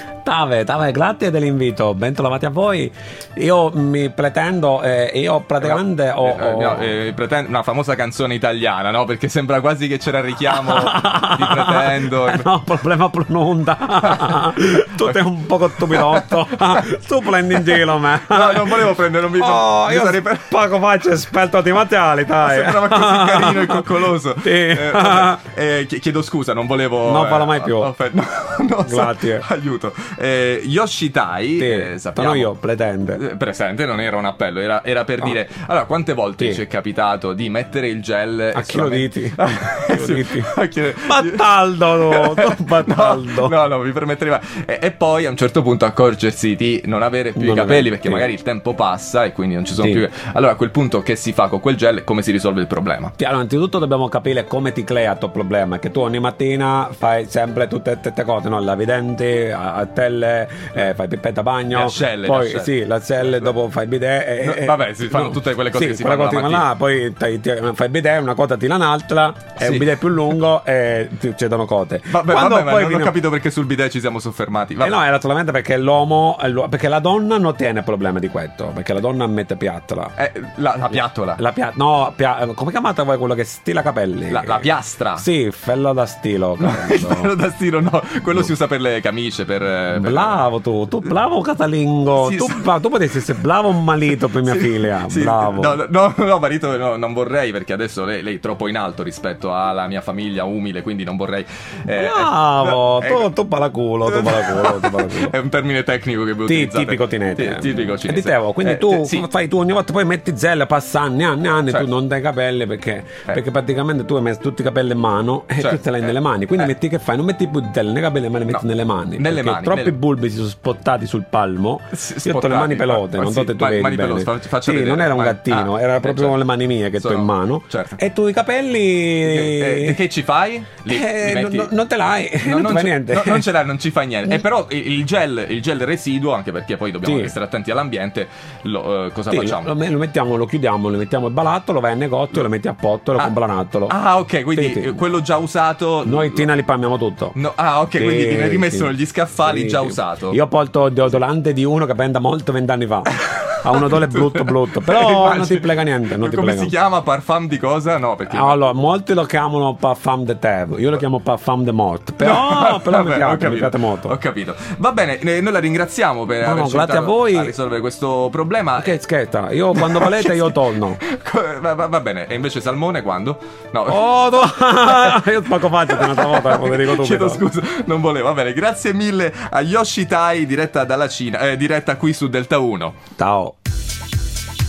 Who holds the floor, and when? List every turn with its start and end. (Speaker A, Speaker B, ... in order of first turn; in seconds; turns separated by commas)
Speaker A: 0.2-6.9, Speaker B: 5.6-12.5, Speaker A: 10.5-25.4, Speaker B: 14.0-14.4, Speaker B: 15.7-16.4, Speaker B: 17.6-20.6, Speaker B: 22.4-32.5, Speaker A: 27.0-27.9, Speaker A: 28.8-29.4, Speaker A: 31.6-33.2, Speaker B: 33.1-53.1, Speaker A: 38.5-43.5, Speaker A: 47.4-48.3, Speaker A: 53.2-73.2, Speaker B: 61.7-63.5, Speaker B: 64.4-66.7, Speaker B: 69.6-70.0, Speaker B: 72.1-75.0, Speaker A: 74.8-80.1, Speaker B: 80.2-81.4, Speaker A: 81.4-87.3, Speaker B: 84.3-85.2, Speaker B: 86.6-90.4, Speaker A: 89.9-95.8, Speaker B: 92.2-92.6, Speaker B: 94.5-103.3, Speaker A: 101.9-105.3, Speaker B: 104.0-109.2, Speaker A: 106.5-130.0, Speaker B: 115.6-116.7, Speaker B: 119.2-120.0, Speaker B: 121.9-126.4, Speaker B: 127.0-128.0, Speaker B: 129.2-131.7, Speaker A: 130.8-133.5, Speaker B: 132.4-139.7, Speaker A: 137.0-137.3, Speaker A: 139.3-143.9, Speaker B: 143.9-146.5, Speaker A: 144.5-145.0, Speaker A: 146.0-147.3, Speaker B: 147.3-150.4, Speaker A: 147.9-156.7, Speaker B: 153.2-158.6, Speaker A: 158.3-164.2, Speaker B: 162.2-169.0, Speaker A: 166.4-167.5, Speaker A: 168.8-171.0, Speaker B: 169.7-174.0, Speaker A: 173.8-177.4, Speaker B: 174.7-183.0, Speaker A: 183.2-183.6